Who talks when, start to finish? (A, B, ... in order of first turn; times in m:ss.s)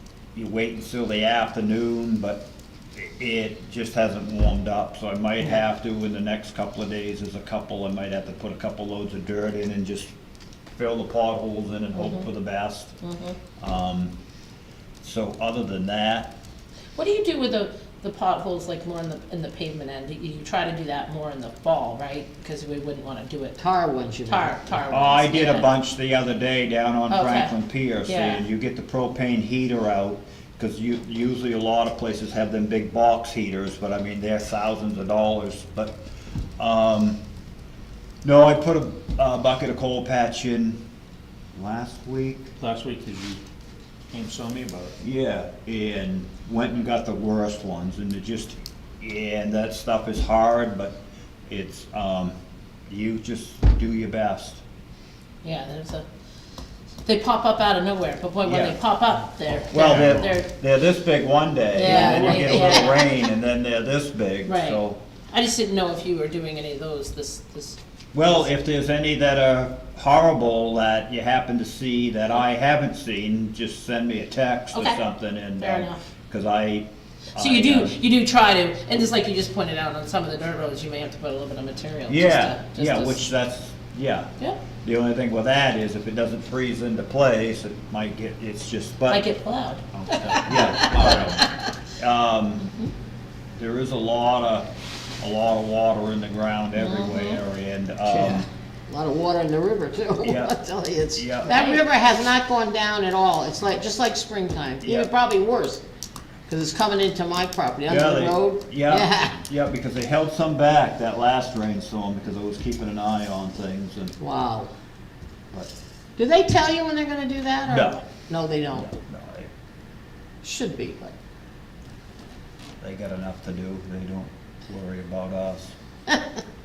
0:00.4-0:10.1 A
0:10.7-0:13.0 A
0:13.0-0:13.4 B
0:13.6-0:14.1 A
0:15.0-0:16.3 A
0:17.0-0:23.6 B
0:23.6-0:24.6 C
0:24.3-0:25.7 B
0:24.9-0:36.0 A
0:27.1-0:27.6 B
0:28.1-0:28.4 B
0:36.6-0:37.2 A
0:38.2-0:40.8 A
0:41.5-0:42.5 A
0:42.6-0:43.4 D
0:44.1-0:45.0 D
0:45.0-0:52.4 A
0:52.9-0:54.6 A
0:55.4-0:56.0 B
0:57.0-1:00.5 B
0:58.4-0:58.8 A
0:59.7-1:05.0 A
0:59.8-1:00.2 D
1:01.7-1:03.0 B
1:01.8-1:03.0 C
1:04.5-1:04.8 B
1:05.3-1:08.4 B
1:08.1-1:18.0 A
1:14.7-1:15.0 B
1:15.6-1:16.0 B
1:17.4-1:23.2 B
1:22.1-1:24.3 A
1:24.8-1:29.2 A
1:29.1-1:31.5 B
1:30.0-1:31.5 D
1:30.5-1:31.4 A
1:32.0-1:32.7 A
1:33.6-1:34.7 A
1:35.2-1:38.5 A
1:36.8-1:37.4 B
1:38.1-1:45.8 C
1:40.2-1:40.5 A
1:41.1-1:41.6 A
1:41.4-1:41.8 B
1:44.8-1:45.1 A
1:46.5-1:49.4 C
1:47.9-1:54.2 A
1:54.2-1:54.7 C
1:56.2-1:58.9 C
1:57.7-1:58.0 A
1:58.7-1:59.5 A
2:00.4-2:01.1 C
2:02.8-2:05.8 A